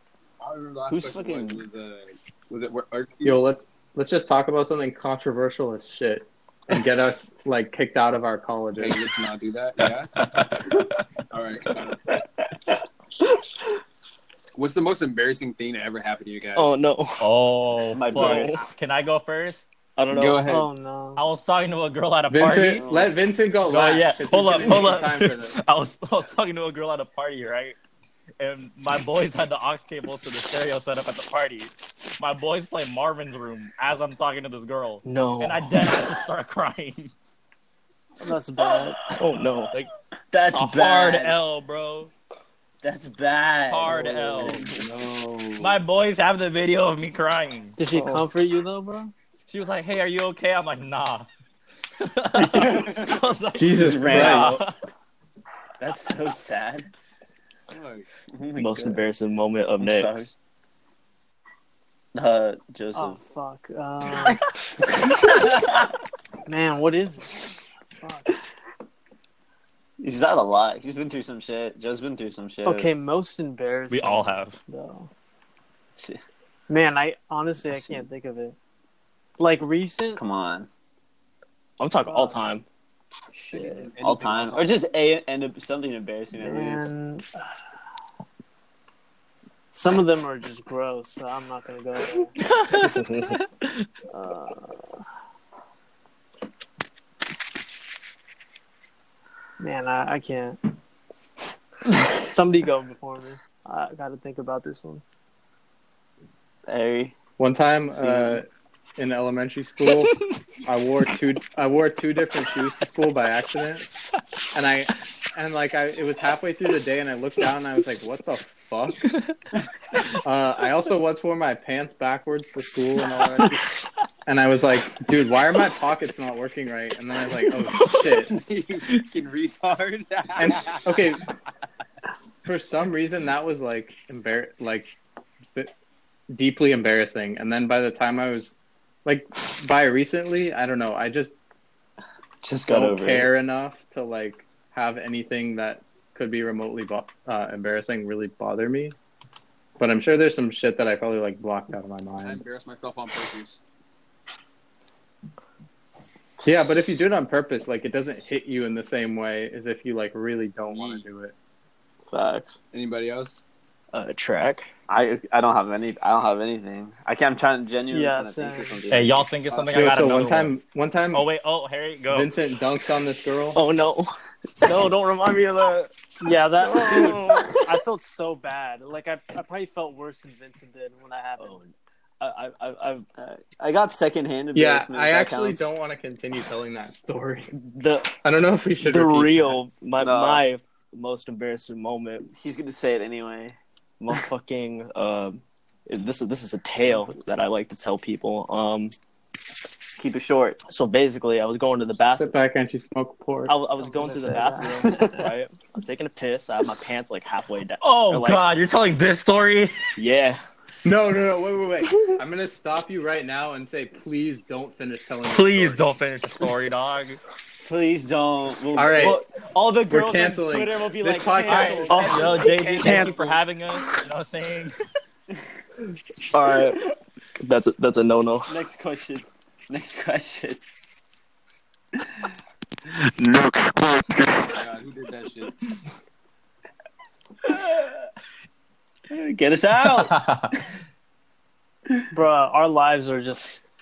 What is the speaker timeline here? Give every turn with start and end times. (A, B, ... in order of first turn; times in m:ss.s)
0:00.4-0:03.4 A
0:00.9-0:01.6 B
0:03.2-0:09.0 C
0:08.8-0:10.1 A
0:10.2-0:11.0 D
0:11.3-0:12.0 A
0:14.5-0:16.8 A
0:16.6-0:17.3 E
0:17.2-0:19.6 D
0:17.9-0:18.6 B
0:18.1-0:18.6 E
0:20.0-0:20.6 E
0:20.1-0:20.6 A
0:20.4-0:21.2 F
0:21.2-0:22.9 D
0:22.3-0:25.6 C
0:22.5-0:23.1 B
0:23.6-0:27.8 D
0:28.4-0:37.1 D
0:35.0-0:36.1 E
0:38.2-0:39.0 F
0:39.2-0:39.8 E
0:40.3-0:41.4 B
0:40.5-0:42.1 D
0:42.8-0:44.9 B
0:43.7-0:44.7 D
0:43.9-0:45.7 C
0:45.6-0:47.8 D
0:47.8-0:49.1 F
0:49.5-0:51.3 D
0:52.0-0:54.7 D
0:52.4-0:53.0 B
0:53.5-0:54.6 C
0:53.7-0:54.6 B
0:55.8-0:56.9 B
0:57.7-0:58.1 A
0:58.3-0:59.0 B
0:58.6-1:00.3 E
0:59.8-1:00.3 B
1:02.1-1:03.2 B
1:02.9-1:04.4 F
1:05.0-1:05.8 B
1:06.4-1:08.3 F
1:10.0-1:12.9 B
1:12.6-1:15.1 F
1:13.9-1:14.6 D
1:16.7-1:18.6 F
1:19.4-1:20.2 F
1:20.1-1:20.7 B
1:21.8-1:22.6 E
1:22.0-1:22.4 F
1:23.5-1:24.8 A
1:24.0-1:26.9 B
1:26.3-1:27.5 F
1:29.7-1:32.3 F
1:32.7-1:33.0 D
1:32.8-1:33.3 E
1:34.1-1:35.0 F
1:39.6-1:40.6 F
1:42.2-1:45.0 F
1:46.7-1:47.1 B
1:47.4-1:53.9 C
1:47.9-1:48.4 B
1:54.5-1:59.2 C
2:00.2-2:08.3 C
2:08.2-2:11.0 A
2:10.4-2:11.2 C
2:12.4-2:14.9 C
2:16.3-2:21.3 C
2:22.4-2:23.3 B
2:22.7-2:29.0 C
2:29.8-2:32.4 C
2:32.2-2:33.6 A
2:36.4-2:41.3 C
2:40.7-2:41.0 A
2:42.1-2:42.6 B
2:42.7-2:43.4 A
2:43.9-2:44.7 E
2:44.9-2:49.7 B
2:47.9-2:48.8 F
2:48.9-2:50.5 D
2:49.7-2:51.2 C
2:51.1-2:52.3 D
2:52.1-2:53.6 C
2:53.5-2:55.9 E
2:56.2-3:01.6 F
2:56.6-2:57.6 E
3:01.4-3:03.0 E
3:03.2-3:05.7 B
3:04.5-3:07.5 C
3:07.5-3:08.1 E
3:08.2-3:09.6 C
3:08.8-3:12.3 E
3:10.0-3:10.4 B
3:12.3-3:13.6 B
3:14.0-3:18.9 E
3:20.0-3:20.6 B
3:20.7-3:22.3 E
3:22.0-3:23.5 C
3:23.5-3:28.4 E
3:23.8-3:25.3 F
3:27.8-3:29.8 D
3:30.0-3:30.4 E
3:30.8-3:35.8 C
3:35.3-3:37.2 D
3:37.6-3:43.3 B
3:38.7-3:39.2 C
3:39.9-3:42.3 C
3:41.5-3:44.8 D
3:41.9-3:43.2 E
3:46.3-3:46.8 E
3:47.4-3:48.6 E
3:48.5-3:50.6 B
3:53.2-3:54.0 B
3:54.4-3:55.5 A
3:57.5-3:57.9 B
3:59.1-4:00.2 B
3:59.9-4:00.5 D
4:02.1-4:03.6 F